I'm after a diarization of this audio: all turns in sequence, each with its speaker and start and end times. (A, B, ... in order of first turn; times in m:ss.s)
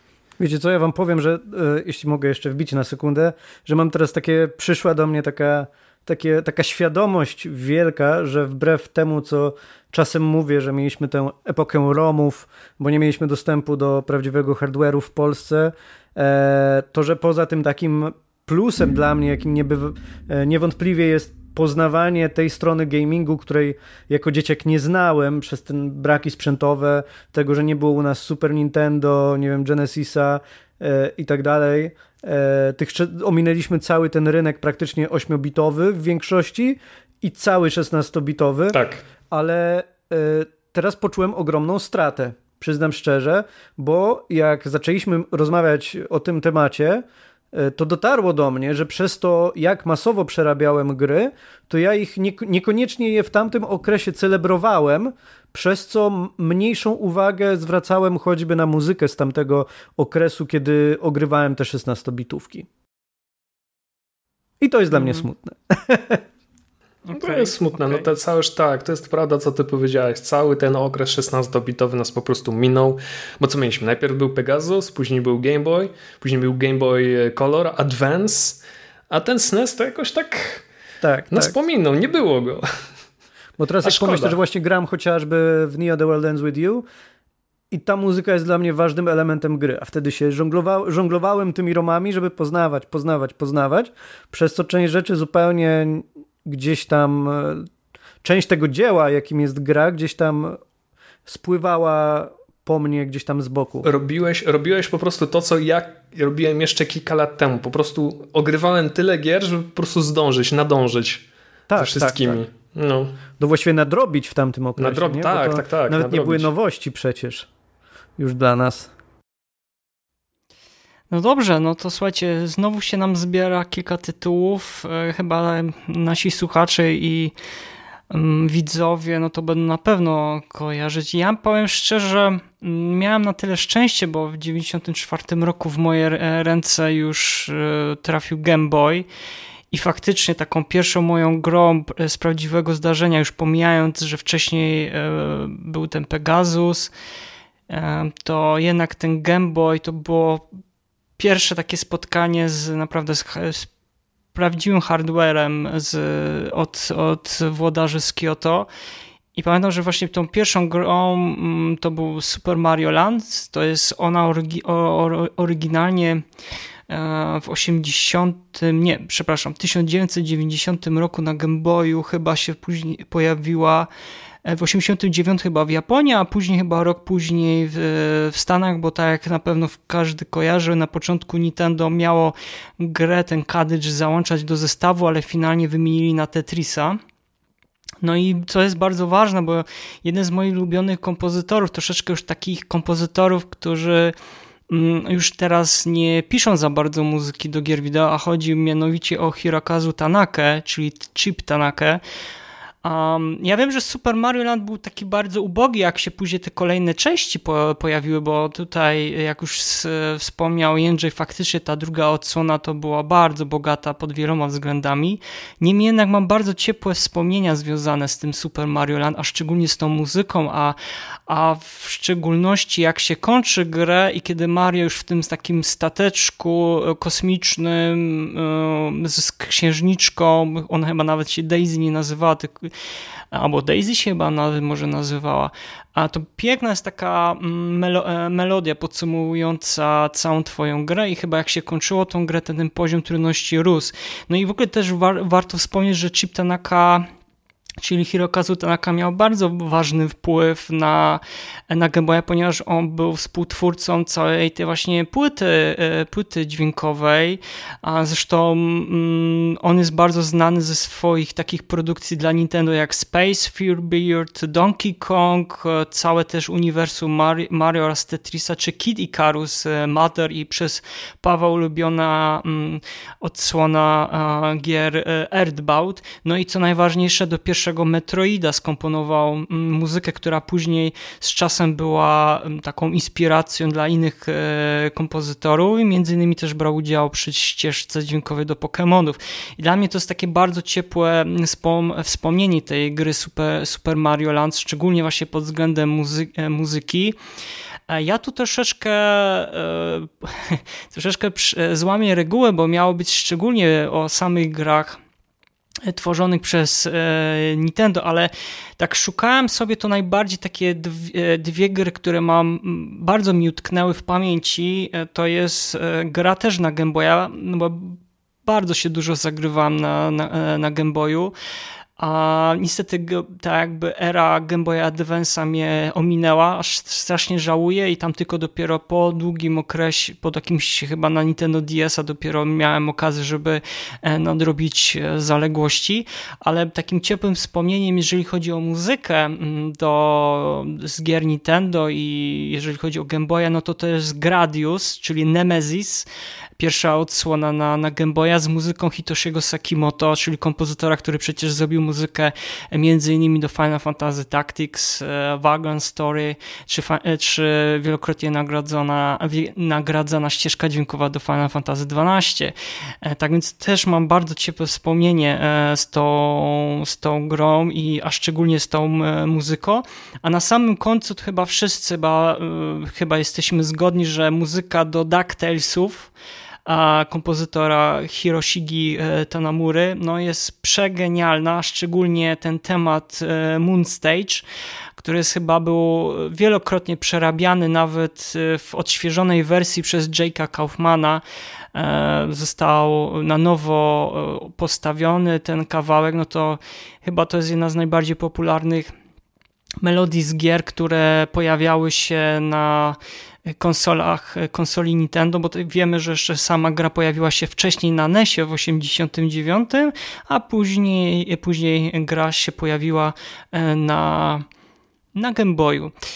0:00.4-0:38.8 A
0:38.7-0:39.0 B
0:39.3-1:02.7 A
1:04.6-1:06.2 A
1:07.1-1:08.0 C
1:07.2-1:20.6 B
1:21.0-1:21.6 A
1:21.3-1:22.7 B
1:23.6-1:26.8 A
1:23.8-1:24.4 B
1:27.7-1:37.6 A
1:38.2-1:40.6 A
1:41.3-1:43.9 A
1:43.8-1:51.2 B
1:51.7-1:52.4 A
1:51.8-1:53.2 B
1:53.4-1:57.5 A
1:54.8-1:56.5 B
1:58.2-1:58.9 A
2:01.1-2:07.3 C
2:08.1-2:19.1 C
2:19.7-2:26.9 C
2:27.7-2:30.5 C
2:31.2-2:33.7 C
2:34.4-2:38.7 C
2:39.4-2:46.2 C
2:46.9-2:53.9 C
2:54.4-3:07.0 C
3:08.0-3:14.1 C
3:14.7-3:22.0 C
3:22.8-3:40.8 C
3:41.3-3:52.7 C
3:53.3-4:07.1 C
4:07.8-4:57.2 C
4:57.9-5:05.0 C
5:05.9-5:21.3 C
5:22.0-5:46.0 C
5:46.6-6:16.1 C
6:16.7-6:24.4 C
6:25.0-6:31.2 C
6:31.7-6:38.9 C
6:39.8-6:43.0 C
6:43.6-6:54.4 C
6:55.2-6:55.9 C